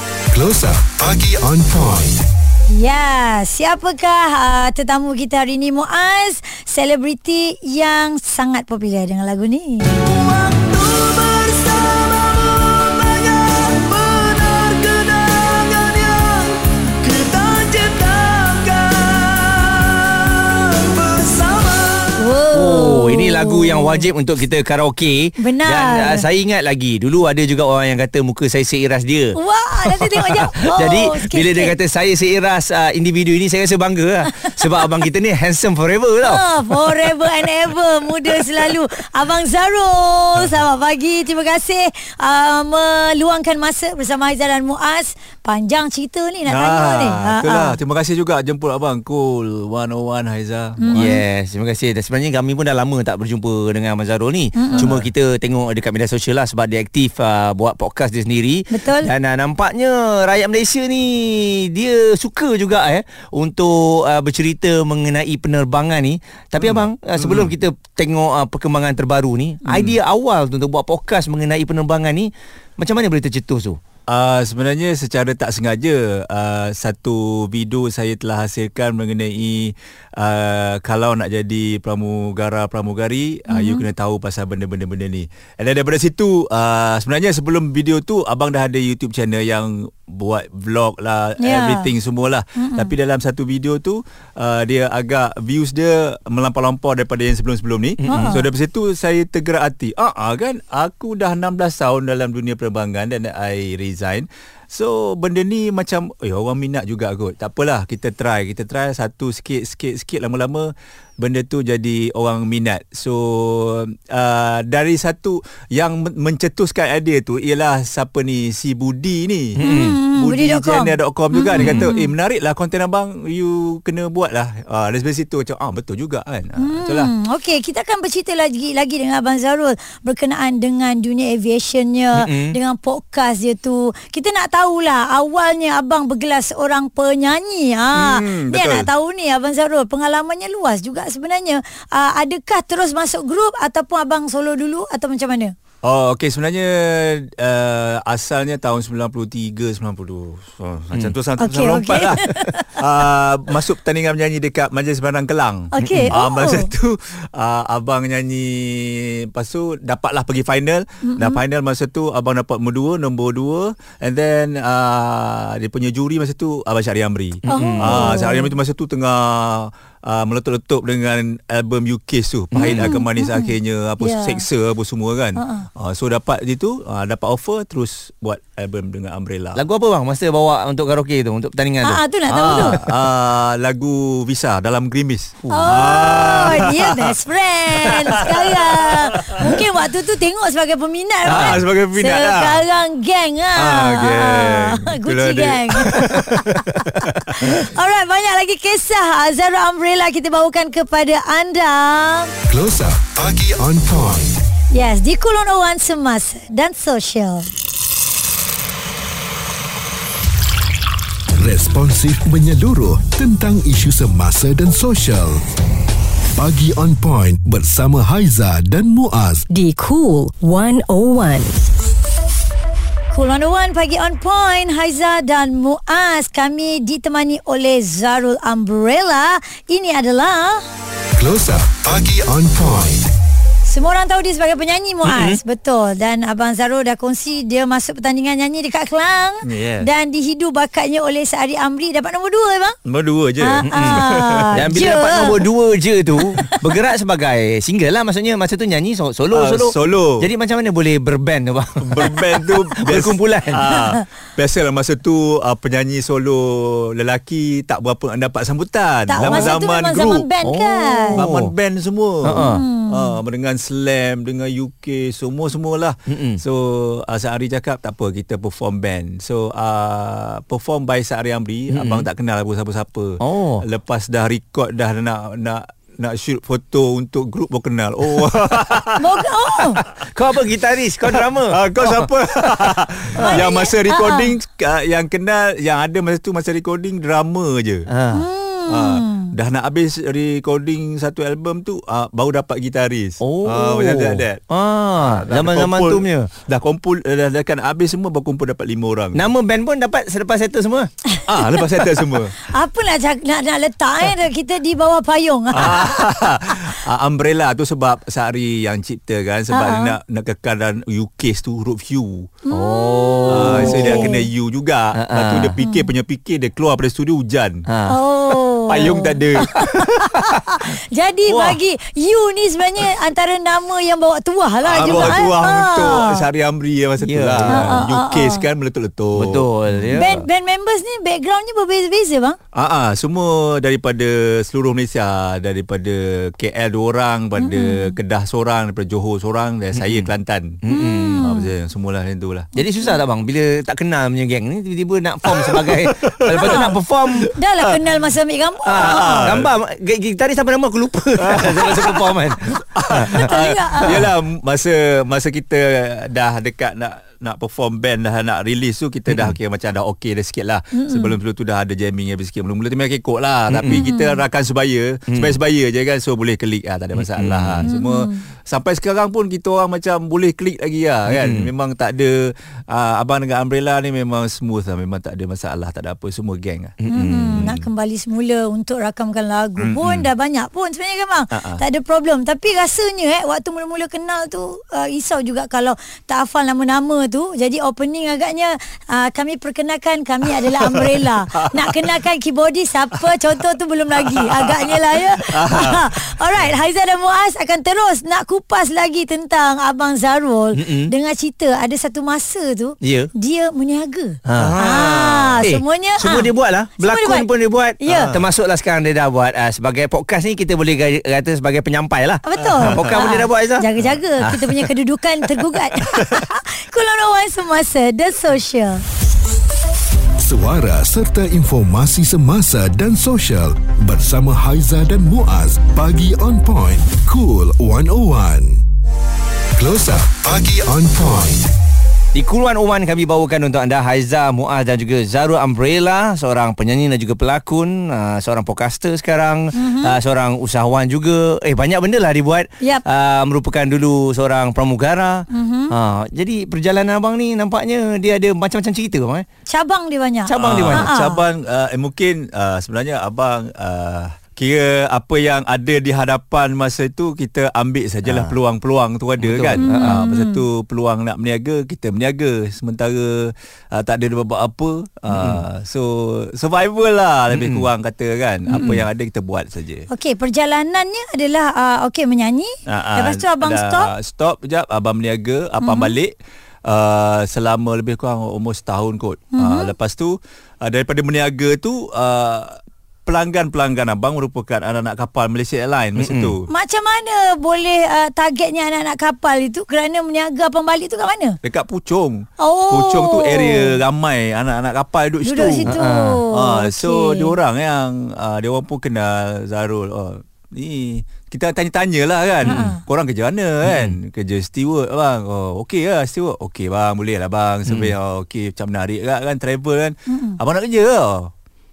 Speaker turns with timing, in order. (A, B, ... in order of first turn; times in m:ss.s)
0:00.3-0:02.2 A
0:02.7-0:10.0 B
0:22.2-0:24.1 B
0:22.5-0:36.4 C
0:25.4-0:26.2 B
0:29.4-0:31.8 B
0:34.3-0:34.8 B
0:36.2-0:47.8 B
0:46.5-0:51.1 D
0:50.8-0:51.2 B
0:51.0-1:13.8 C
0:54.6-0:54.9 B
0:54.7-0:55.1 D
0:58.7-0:59.1 B
1:06.6-1:07.5 D
1:09.7-1:10.0 D
1:14.1-2:07.1 D
1:23.5-1:23.9 B
1:31.4-1:31.9 B
1:32.6-1:32.9 B
1:38.0-1:38.4 C
1:38.1-1:38.5 B
1:59.6-2:00.0 C
1:59.6-2:02.1 B
2:01.6-2:01.9 C
2:06.6-2:25.5 B
2:12.2-2:12.5 C
2:17.9-2:18.9 D
2:25.8-2:59.6 D
2:31.4-2:32.7 B
2:35.7-2:36.7 B
2:35.8-2:36.2 C
2:41.0-2:41.4 B
2:47.5-2:48.2 C
2:47.5-2:48.5 B
2:52.5-2:53.0 C
2:52.6-2:54.4 B
2:55.4-2:55.7 B
2:59.6-3:02.8 C
3:01.8-3:02.8 B
3:02.3-3:07.1 D
3:05.4-3:06.7 C
3:05.5-3:22.3 B
3:07.7-3:09.6 D
3:11.3-3:12.6 D
3:11.3-3:11.6 C
3:13.6-3:17.7 D
3:22.5-3:24.4 A
3:24.7-3:27.5 B
3:31.4-3:35.4 A
3:36.4-3:39.5 A
3:39.5-3:41.6 E
3:43.1-3:50.6 B
3:51.2-3:53.1 A
3:53.7-4:02.8 B
3:55.0-3:55.4 C
3:59.4-3:59.9 D
4:02.8-4:04.6 D
4:03.4-4:05.4 B
4:03.7-4:13.7 C
4:06.3-4:06.6 B
4:09.3-4:10.3 D
4:11.8-4:20.3 D
4:19.1-4:21.2 B
4:19.2-4:19.6 C
4:20.4-4:21.5 C
4:21.2-4:39.9 D
4:22.2-4:22.6 C
4:22.5-4:23.2 B
4:26.1-4:26.4 C
4:31.7-4:32.1 C
4:33.2-4:33.6 C
4:39.0-4:39.8 B
4:40.1-4:42.1 C
4:41.4-4:47.9 D
4:43.2-4:43.5 C
4:43.2-4:44.3 B
4:47.9-4:48.2 C
4:48.1-4:49.3 B
4:48.7-4:54.4 D
4:53.2-4:56.3 C
4:55.0-4:59.2 D
4:59.2-5:00.9 C
5:01.1-5:01.7 B
5:01.3-5:02.4 D
5:02.4-5:06.3 B
5:05.5-5:12.3 D
5:09.5-5:10.0 B
5:12.4-5:14.3 B
5:12.5-5:14.2 C
5:13.3-5:17.6 D
5:15.0-5:15.6 C
5:15.6-5:15.9 B
5:17.7-5:18.0 C
5:17.9-5:26.2 B
5:18.7-5:20.2 D
5:21.3-5:21.6 C
5:24.6-5:30.0 D
5:24.9-5:25.3 C
5:27.0-5:27.8 C
5:27.5-5:28.4 B
5:29.2-5:30.2 C
5:29.9-5:32.4 B
5:32.5-5:40.6 D
5:37.4-5:38.0 B
5:39.8-5:40.1 C
5:40.6-5:41.2 C
5:40.7-5:41.5 B
5:41.2-5:42.5 D
5:42.6-5:47.3 C
5:42.6-5:43.0 B
5:45.3-5:47.3 D
5:46.4-5:46.7 B
5:47.3-5:49.3 B
5:48.7-5:53.3 C
5:48.7-5:49.5 D
5:51.2-5:52.0 D
5:52.7-6:17.6 D
5:53.2-5:54.0 B
5:59.1-5:59.4 C
6:00.7-6:01.2 B
6:03.5-6:03.9 C
6:03.7-6:04.2 B
6:05.1-6:05.4 C
6:07.0-6:07.7 C
6:07.6-6:08.2 B
6:11.1-6:11.5 C
6:16.8-6:17.5 C
6:16.9-6:47.3 B
6:19.6-6:20.1 D
6:21.3-6:21.6 D
6:30.6-6:31.8 D
6:34.0-6:36.5 D
6:40.6-6:40.9 C
6:42.8-6:43.1 C
6:44.3-6:53.7 C
6:44.4-6:45.5 D
6:47.8-6:48.1 B
6:47.9-6:48.2 D
6:52.2-6:58.8 B
6:52.6-6:53.0 D
6:54.2-6:54.7 C
7:00.2-7:08.6 A
7:09.5-7:11.5 A
7:12.1-7:29.2 C
7:19.5-7:20.0 B
7:25.3-7:25.7 B
7:29.5-7:31.2 B
7:30.3-7:30.9 C
7:30.4-7:49.9 D
7:38.0-7:38.3 C
7:39.2-7:40.0 C
7:39.6-7:40.4 B
7:45.1-7:45.4 C
7:47.3-7:47.7 C
7:48.5-7:48.8 C
7:49.9-7:53.9 B
7:52.7-7:56.1 D
7:55.6-7:55.9 B
7:56.7-8:06.5 D
7:59.3-7:59.7 B
8:06.0-8:06.4 C
8:06.5-8:11.4 B
8:11.4-8:15.7 D
8:12.4-8:13.8 B
8:15.2-8:17.3 B
8:15.6-8:16.2 C
8:16.3-8:31.3 D
8:22.4-8:22.8 B
8:22.4-8:22.7 C
8:23.6-8:24.0 C
8:27.7-8:27.9 C
8:30.1-8:30.4 B